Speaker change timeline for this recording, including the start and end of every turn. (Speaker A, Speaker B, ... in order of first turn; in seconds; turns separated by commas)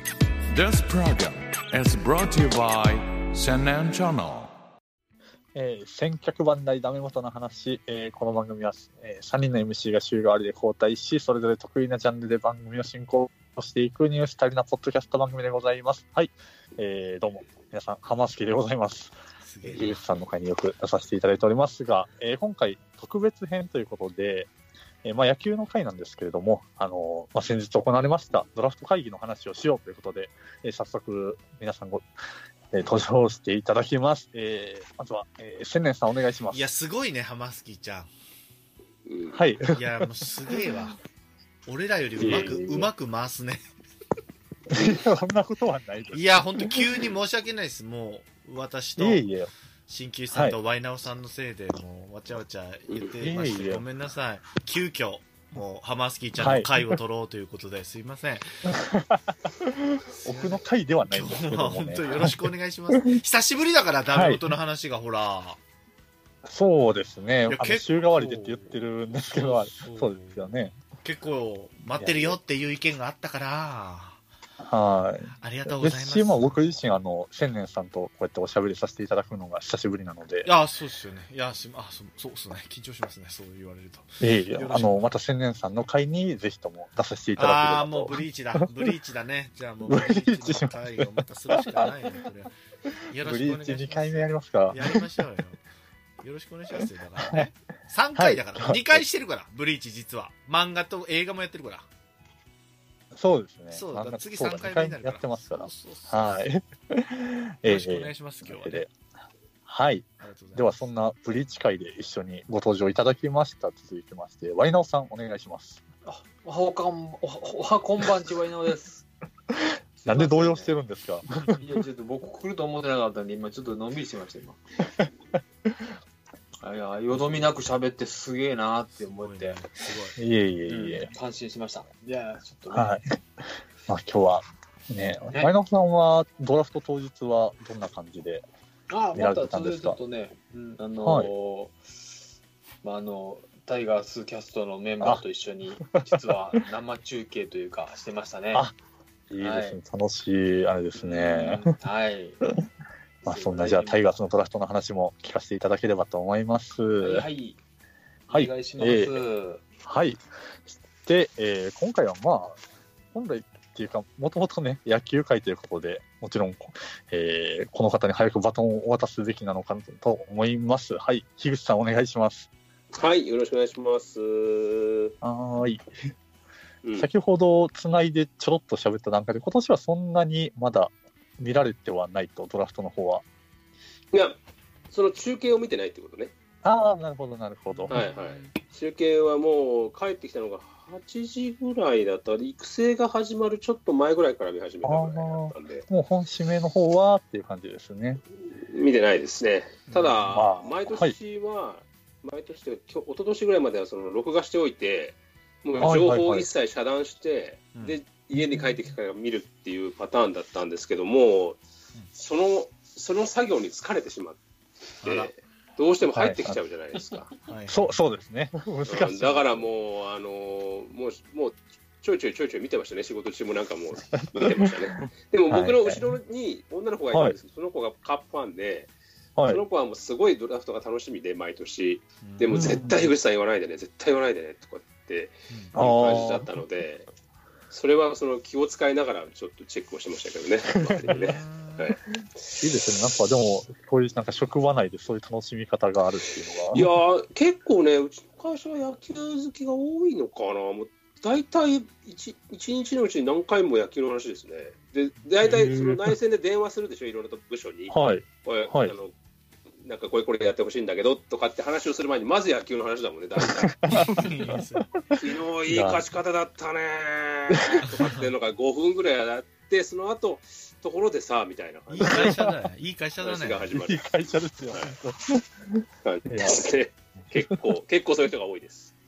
Speaker A: 0.5-4.5, Speaker B: 5.5-24.5, Speaker C: 19.4-20.0, Speaker B: 25.0-32.0, Speaker B: 32.7-36.6, Speaker C: 36.5-38.1, Speaker D: 39.0-39.4, Speaker B: 39.3-40.0, Speaker C: 39.7-41.0, Speaker C: 41.7-43.6, Speaker B: 42.2-42.9, Speaker B: 44.7-46.8, Speaker C: 46.1-49.3, Speaker B: 49.0-49.5, Speaker C: 49.9-58.5, Speaker B: 53.2-53.8, Speaker B: 56.4-57.0, Speaker B: 58.6-62.3, Speaker C: 60.2-65.6, Speaker B: 62.9-63.2, Speaker B: 64.1-64.4, Speaker B: 66.4-70.8, Speaker C: 67.5-70.5, Speaker C: 71.0-74.2, Speaker B: 72.0-72.4, Speaker B: 74.6-80.5, Speaker C: 75.4-76.7, Speaker C: 80.4-85.0, Speaker B: 84.2-88.9, Speaker C: 87.4-92.5, Speaker B: 89.8-92.1, Speaker C: 93.1-95.6, Speaker B: 93.1-95.0, Speaker C: 96.2-101.9, Speaker B: 97.2-97.5, Speaker B: 98.1-99.0, Speaker B: 103.1-108.9, Speaker C: 103.7-106.4, Speaker C: 107.6-108.8, Speaker B: 109.7-115.8, Speaker C: 110.2-110.7, Speaker E: 116.0-119.0, Speaker E: 120.0-120.7, Speaker B: 120.0-121.5, Speaker E: 121.6-124.6, Speaker E: 126.6-129.6, Speaker C: 129.0-130.2, Speaker B: 130.2-131.1, Speaker E: 130.7-133.0, Speaker B: 132.7-138.4, Speaker E: 138.9-141.8, Speaker B: 139.1-140.0, Speaker B: 141.0-141.3, Speaker E: 142.8-148.7, Speaker B: 149.3-151.7, Speaker E: 149.4-149.8, Speaker E: 151.0-152.4, Speaker B: 153.2-157.3, Speaker E: 153.2-154.0, Speaker E: 157.0-157.6, Speaker B: 158.3-159.2, Speaker E: 158.3-159.6, Speaker B: 159.8-162.6, Speaker B: 163.1-172.5, Speaker D: 172.9-175.1, Speaker B: 175.2-175.8, Speaker D: 176.8-177.1, Speaker B: 177.0-183.2, Speaker D: 184.1-184.4, Speaker D: 184.9-186.3, Speaker B: 186.6-188.0, Speaker C: 187.7-188.5, Speaker D: 187.9-195.8, Speaker B: 194.8-198.2, Speaker D: 198.5-211.6, Speaker C: 199.9-200.3, Speaker B: 200.3-201.1, Speaker B: 205.8-206.5, Speaker D: 212.1-214.4, Speaker C: 215.0-215.3, Speaker D: 215.0-217.3, Speaker B: 216.1-216.6, Speaker C: 217.5-217.9, Speaker B: 217.7-219.7, Speaker D: 218.8-228.9, Speaker B: 224.2-224.9, Speaker B: 225.5-226.1, Speaker B: 229.4-229.6, Speaker D: 229.5-237.1, Speaker C: 232.2-232.7, Speaker B: 232.5-233.1, Speaker B: 235.7-236.6, Speaker D: 237.7-242.0, Speaker B: 240.7-241.4, Speaker C: 241.0-241.9, Speaker B: 242.6-246.9, Speaker D: 246.7-259.1, Speaker B: 255.4-256.1, Speaker B: 257.9-258.9, Speaker D: 259.8-264.3, Speaker B: 263.6-264.6, Speaker C: 263.9-265.0, Speaker D: 265.1-272.4, Speaker B: 265.7-266.0, Speaker B: 267.5-267.9, Speaker C: 267.9-268.2, Speaker C: 271.9-273.7, Speaker B: 272.0-272.5, Speaker D: 273.2-274.0, Speaker B: 273.7-276.7, Speaker D: 276.0-278.9